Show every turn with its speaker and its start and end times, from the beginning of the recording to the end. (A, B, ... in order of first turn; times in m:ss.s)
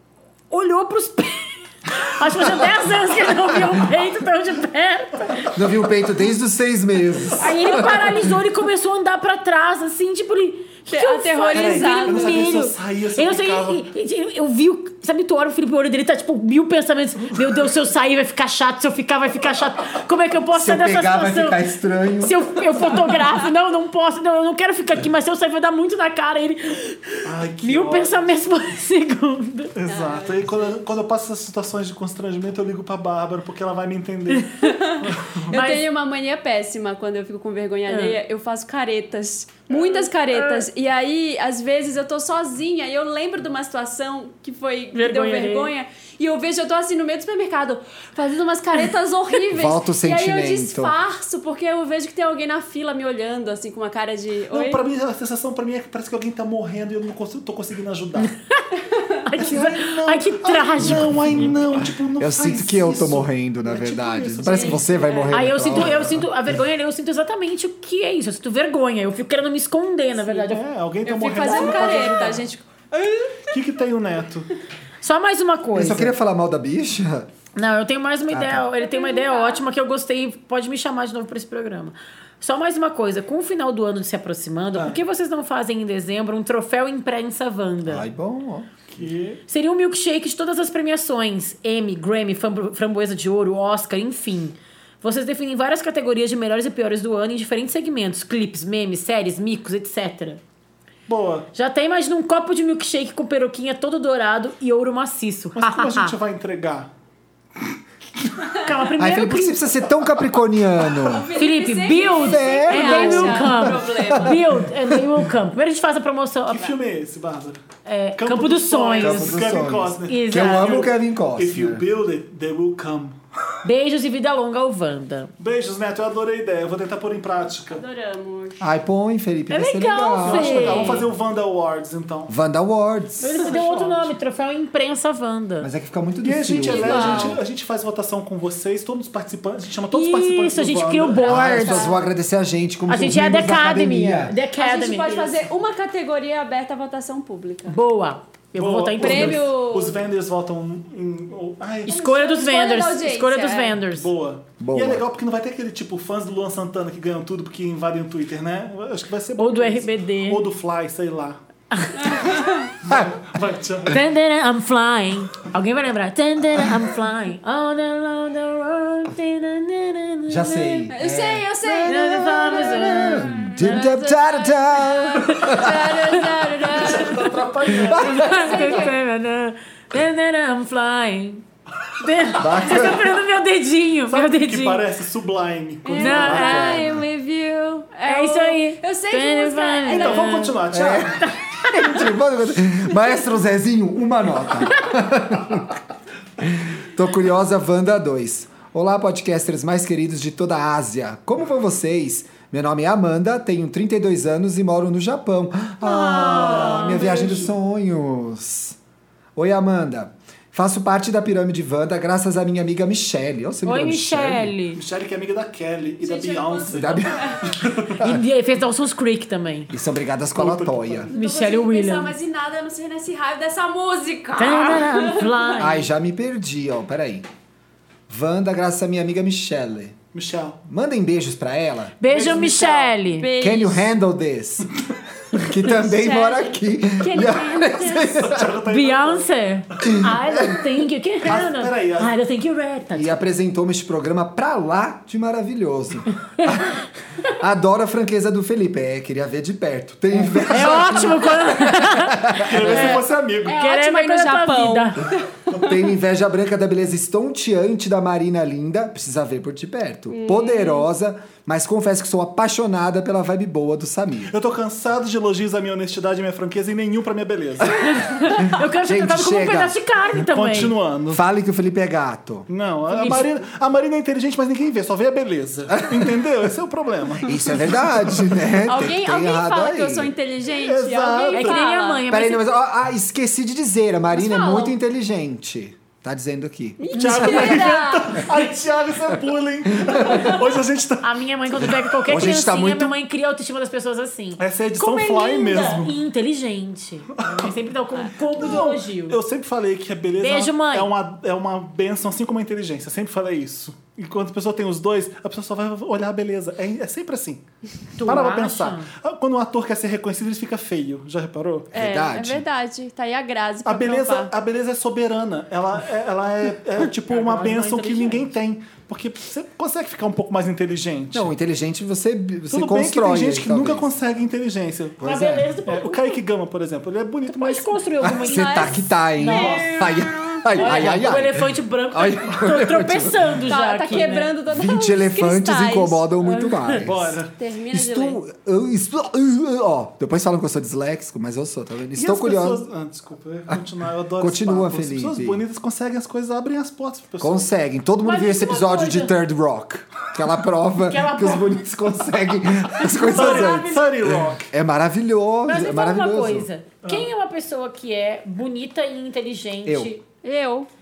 0:00.5-0:05.5 A
0:05.5-0:08.2 B
0:07.4-0:21.6 A
0:10.9-0:12.4 C
0:11.5-0:13.8 D
0:20.5-0:22.4 B
0:22.2-0:29.7 A
0:27.2-0:28.3 D
0:29.8-0:35.5 D
0:29.9-0:30.8 C
0:34.6-0:54.8 C
0:35.5-0:35.8 A
0:37.9-0:38.2 A
0:39.7-0:40.6 A
0:44.9-0:45.7 A
0:49.5-0:51.0 B
0:54.5-0:58.3 D
0:58.2-1:01.5 A
0:58.9-0:59.2 C
0:59.3-1:06.0 D
1:00.8-1:06.3 B
1:04.4-1:05.1 C
1:05.3-1:10.6 A
1:10.3-1:12.4 D
1:11.0-1:13.5 C
1:11.4-1:12.1 A
1:13.4-1:14.5 D
1:15.0-1:16.1 A
1:15.7-1:17.3 B
1:17.6-1:28.0 A
1:18.3-1:18.7 B
1:18.8-1:19.6 C
1:27.8-1:28.7 B
1:28.9-1:29.4 D
1:29.5-1:40.4 A
1:41.1-1:41.5 D
1:41.5-1:46.2 A
1:45.5-1:46.9 D
1:48.6-1:49.7 A
1:49.0-1:51.3 B
1:51.0-1:54.4 C
1:51.4-1:56.7 A
1:52.2-1:55.2 B
1:56.5-1:57.6 D
1:57.8-1:59.4 A
1:58.2-2:03.2 D
1:59.0-2:01.8 B
2:00.1-2:00.9 A
2:03.6-2:05.3 A
2:05.4-2:07.8 D
2:07.7-2:08.6 C
2:08.6-2:10.9 B
2:09.5-2:11.0 A
2:10.2-2:12.3 D
2:12.3-2:13.3 B
2:13.2-2:15.7 A
2:13.2-2:14.1 D
2:15.6-2:17.4 B
2:16.2-2:21.6 D
2:16.6-2:17.4 C
2:19.9-2:21.9 A
2:21.2-2:24.4 B
2:21.3-2:22.0 C
2:22.9-2:25.2 A
2:24.6-2:27.8 C
2:27.7-2:29.5 A
2:28.5-2:31.9 D
2:29.0-2:30.0 C
2:31.9-2:33.8 C
2:31.9-2:34.1 A
2:33.9-2:41.4 D
2:34.6-2:35.0 B
2:39.4-2:40.4 A
2:41.7-2:42.2 A
2:42.0-2:42.7 C
2:42.8-2:44.0 D
2:42.9-2:43.1 B
2:43.9-2:50.9 A
2:50.3-2:51.5 B
2:50.9-2:58.9 C
2:51.6-2:53.8 A
2:52.4-2:55.9 B
2:55.2-2:57.2 A
2:56.7-2:58.9 D
2:57.8-2:58.3 B
2:57.9-3:01.4 A
3:02.0-3:04.8 A
3:02.4-3:03.1 B
3:04.1-3:06.6 D
3:05.8-3:10.4 C
3:06.0-3:06.8 A
3:06.0-3:07.0 B
3:08.0-3:10.6 A
3:09.9-3:11.2 D
3:10.7-3:15.8 B
3:11.2-3:12.0 A
3:16.4-3:28.8 B
3:25.8-3:27.1 A
3:26.1-3:27.5 D
3:29.4-3:34.5 B
3:33.6-3:34.8 A
3:34.7-3:38.1 D
3:36.0-3:37.4 C
3:36.7-3:37.4 B
3:38.0-3:39.7 A
3:39.7-3:41.1 B
3:40.3-3:41.1 D
3:41.1-3:45.6 C
3:41.1-3:42.1 A
3:44.4-3:45.9 A
3:45.6-3:47.3 B
3:48.1-3:50.0 B
3:50.1-3:50.6 D
3:50.7-3:52.0 B
3:52.0-3:53.3 A
3:52.1-3:52.6 D
3:52.2-3:53.9 C
3:53.4-3:54.7 B
3:55.3-3:58.6 B
3:55.6-3:58.3 C
3:58.2-3:59.3 D
3:58.7-4:03.1 A
3:59.8-4:00.5 B
4:01.2-4:02.1 D
4:02.9-4:06.8 B
4:07.3-4:13.0 B
4:10.5-4:15.0 A
4:12.4-4:13.6 D
4:12.7-4:15.8 C
4:15.5-4:24.3 B
4:20.1-4:20.9 C
4:24.3-4:28.0 D
4:27.7-4:30.8 A
4:28.5-4:29.8 B
4:30.2-4:31.2 D
4:31.1-4:32.5 B
4:32.5-4:38.3 D
4:32.9-4:33.3 A
4:35.7-4:36.1 B
4:37.2-4:40.1 B
4:38.6-4:42.0 C
4:40.6-4:41.6 D
4:41.3-4:42.5 A
4:42.1-4:47.6 B
4:44.1-4:44.8 C
4:46.8-4:48.3 C
4:46.9-4:51.1 D
4:51.0-4:59.2 A
4:51.6-4:52.9 B
4:54.4-4:55.9 D
4:57.2-4:57.5 D
4:58.3-5:07.4 D
5:00.2-5:00.9 A
5:08.0-5:08.9 A
5:08.0-5:11.7 D
5:11.7-5:12.4 B
5:11.7-5:14.3 C
5:13.6-5:21.3 D
5:17.0-5:18.3 A
5:21.1-5:23.9 B
5:22.5-5:25.0 D
5:25.0-5:25.5 B
5:25.0-5:26.2 A
5:25.6-5:27.8 D
5:27.3-5:29.7 A
5:28.0-5:33.4 B
5:28.1-5:30.8 C
5:29.3-5:29.6 D
5:30.5-5:34.3 A
5:33.5-5:36.1 C
5:34.5-5:37.2 B
5:36.8-5:37.3 D
5:37.4-5:38.2 C
5:37.7-5:42.6 B
5:42.0-5:47.4 D
5:44.2-5:45.4 B
5:47.2-5:56.5 B
5:48.0-5:49.2 A
5:50.8-5:51.6 A
5:52.9-5:53.9 A
5:53.1-5:54.5 D
5:55.4-6:00.0 A
5:59.6-5:59.9 B
6:00.2-6:00.7 C